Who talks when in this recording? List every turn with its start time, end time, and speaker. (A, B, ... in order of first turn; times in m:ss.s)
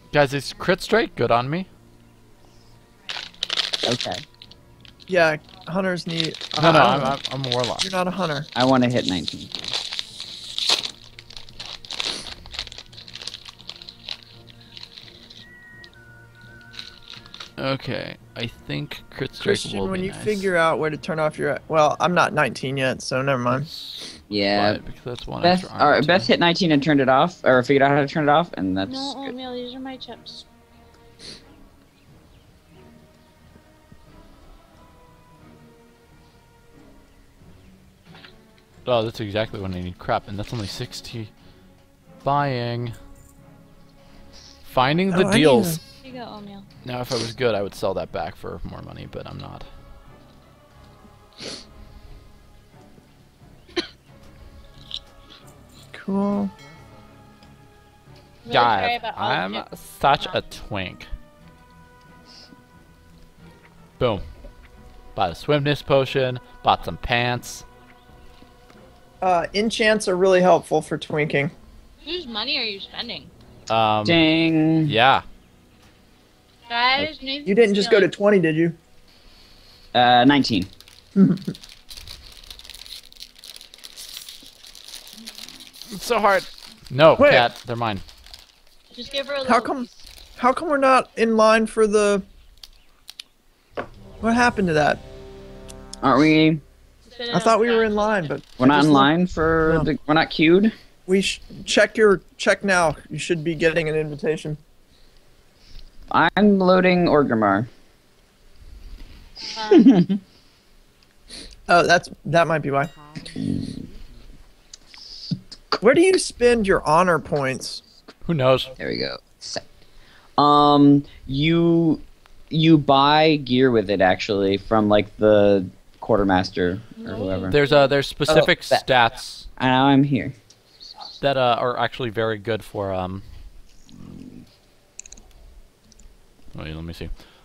0:00.1-0:01.7 A
0:03.8-0:04.2 B
0:05.1-0:07.2 C
0:06.6-0:07.9 A
0:07.8-0:08.5 C
0:08.5-0:09.7 B
0:17.6-0:20.5 A
0:19.4-0:23.6 C
0:23.5-0:26.3 A
0:24.3-0:24.8 B
0:25.4-0:29.3 B
0:28.8-0:30.4 D
0:38.8-0:41.3 A
0:42.2-0:43.0 A
0:44.6-0:45.8 A
0:45.1-0:45.8 C
0:46.0-0:46.7 D
0:46.8-0:49.7 A
0:55.9-0:56.5 C
0:58.4-0:59.7 D
0:58.5-1:01.1 A
1:04.0-1:04.2 A
1:05.1-1:07.6 A
1:09.2-1:11.5 C
1:12.0-1:13.3 D
1:13.7-1:14.2 A
1:14.0-1:15.0 B
1:14.8-1:15.2 A
1:16.7-1:18.1 D
1:17.4-1:18.8 C
1:19.9-1:20.7 B
1:21.1-1:21.5 C
1:25.9-1:28.0 A
1:27.2-1:27.5 C
1:28.9-1:29.9 D
1:29.4-1:32.2 C
1:34.2-1:35.0 C
1:36.0-1:36.6 B
1:37.0-1:38.3 D
1:37.3-1:39.9 C
1:38.6-1:40.7 B
1:41.1-1:44.6 C
1:46.1-1:47.7 B
1:49.5-1:49.9 D
1:49.6-1:50.2 B
1:51.7-1:52.9 C
1:53.3-1:53.8 B
1:55.8-1:57.8 C
1:58.2-1:58.7 A
1:58.8-1:59.8 B
2:00.4-2:07.6 B
2:07.1-2:07.4 D
2:07.5-2:09.5 A
2:08.3-2:08.8 B
2:09.6-2:10.4 B
2:11.2-2:13.2 A
2:14.0-2:14.3 B
2:16.5-2:17.1 A